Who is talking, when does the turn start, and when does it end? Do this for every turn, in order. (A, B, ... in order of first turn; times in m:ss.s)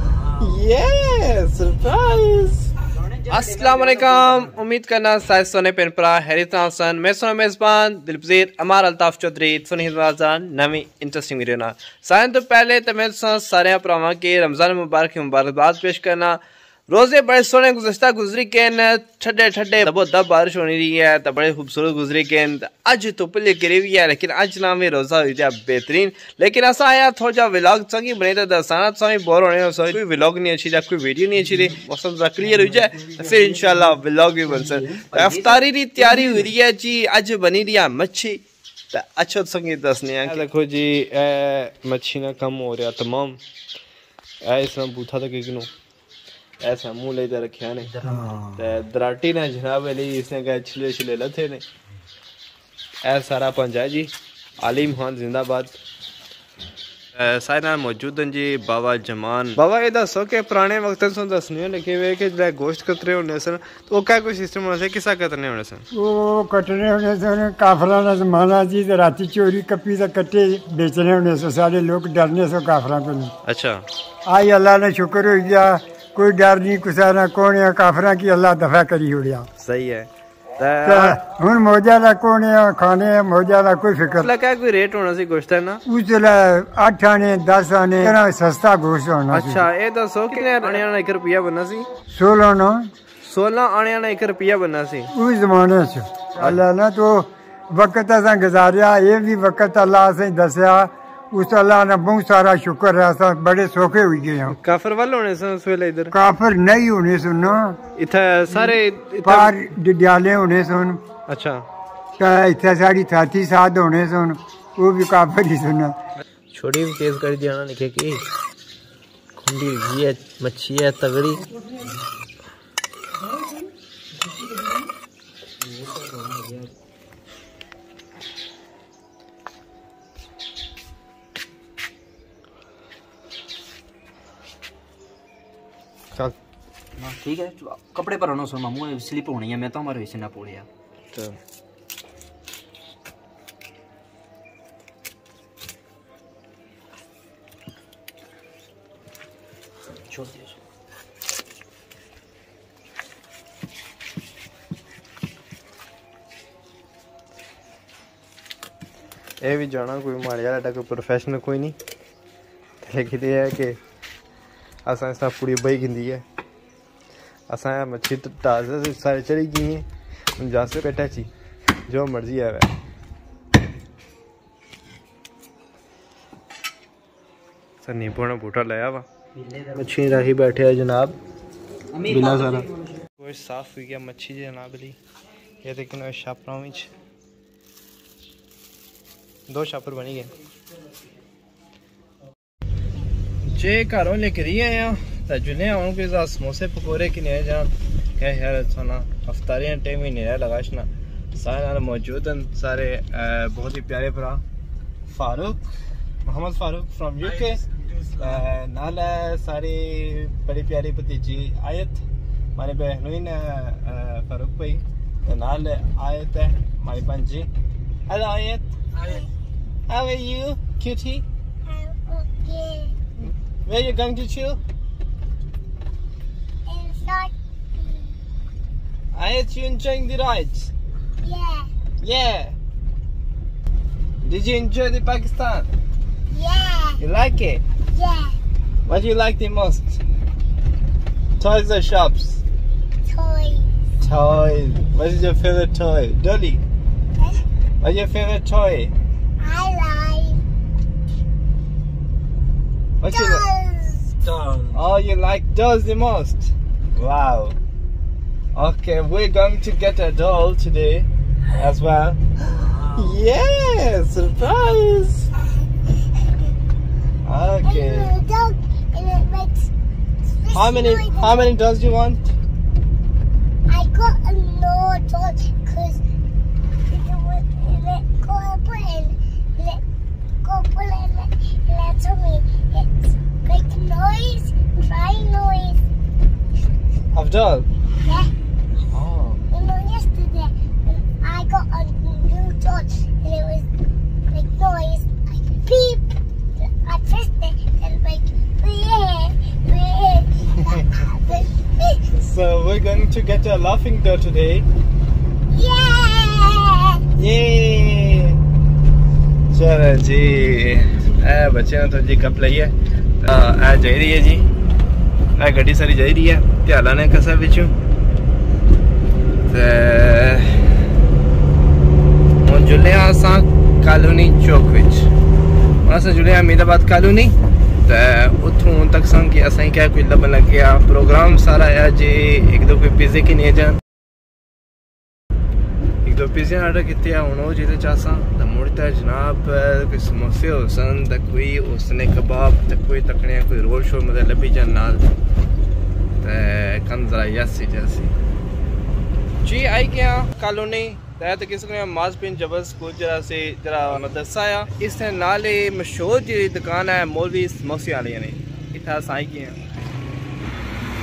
0:00.2-0:02.7 A
0:03.2-0:04.5 B
0:03.3-0:43.4 A
0:32.5-0:33.7 B
0:34.6-0:36.3 B
0:44.4-0:45.7 A
0:46.6-0:48.0 A
0:47.9-0:48.6 B
0:48.6-0:51.7 A
0:53.0-0:55.8 A
0:57.2-1:05.9 A
1:05.9-1:13.3 C
1:13.4-1:13.8 A
1:14.3-1:19.5 C
1:19.6-1:21.2 A
1:20.8-1:24.3 C
1:24.2-1:25.8 A
1:25.9-1:29.7 C
1:29.3-1:31.9 A
1:32.1-1:32.9 C
1:33.2-1:35.1 A
1:35.1-1:44.6 C
1:44.5-1:46.2 A
1:46.1-1:47.8 C
1:48.0-1:49.5 A
1:49.2-1:51.0 C
1:51.3-1:51.6 A
1:52.2-1:56.0 C
1:56.5-1:58.2 A
1:59.4-2:01.4 A
2:05.6-2:06.7 B
2:17.0-2:20.7 B
2:30.1-2:30.6 B
2:39.4-2:41.8 A
2:42.8-2:43.8 A
2:44.8-2:46.2 A
2:47.5-2:49.9 A
2:50.4-2:51.3 A
2:51.9-2:52.7 A
2:57.8-2:59.1 A
2:59.8-3:01.2 A
3:01.9-3:02.7 B
3:02.0-3:02.7 A
3:03.2-3:05.0 A
3:05.6-3:06.9 A
3:09.5-3:10.3 A
3:13.5-3:24.4 A
3:25.1-3:25.6 A
3:26.2-3:27.6 A
3:28.1-3:32.0 A
3:32.6-3:37.5 A
3:38.1-3:38.7 A
3:39.0-3:39.3 D
3:39.9-3:41.2 A
3:41.7-3:43.0 D
3:43.7-3:44.6 A
3:46.7-3:48.1 D
3:49.1-3:50.7 A
3:51.2-3:51.7 D
3:52.0-3:52.6 A
3:54.2-3:55.7 A
3:56.3-3:57.0 D
3:57.0-3:57.6 A
3:57.9-3:58.4 D
3:58.9-4:00.0 A
4:01.4-4:02.4 A
4:03.1-4:03.7 D
4:04.0-4:06.6 A
4:07.8-4:08.9 A
4:09.4-4:10.4 D
4:13.0-4:13.4 A
4:13.1-4:14.1 D
4:14.2-4:14.8 B
4:14.7-4:17.6 A
4:18.5-4:22.2 A
4:22.6-4:23.0 B
4:23.0-4:25.3 A
4:27.2-4:28.1 A
4:27.6-4:29.7 D
4:30.4-4:31.5 D
4:30.5-4:32.2 A
4:33.7-4:36.0 D
4:36.9-4:39.8 D
4:40.4-4:45.8 D
4:47.1-4:47.7 A
4:48.0-4:48.3 D
4:48.9-4:49.4 A
4:49.5-4:53.7 D
4:54.3-5:02.0 D
5:02.1-5:04.7 A
5:05.5-5:07.0 D
5:07.2-5:08.4 A
5:09.5-5:14.4 A
5:15.4-5:17.7 A
5:19.5-5:20.6 A
5:22.4-5:25.1 A
5:25.8-5:33.8 A
5:36.0-5:45.1 A
5:46.2-5:48.1 A
5:49.4-5:59.6 A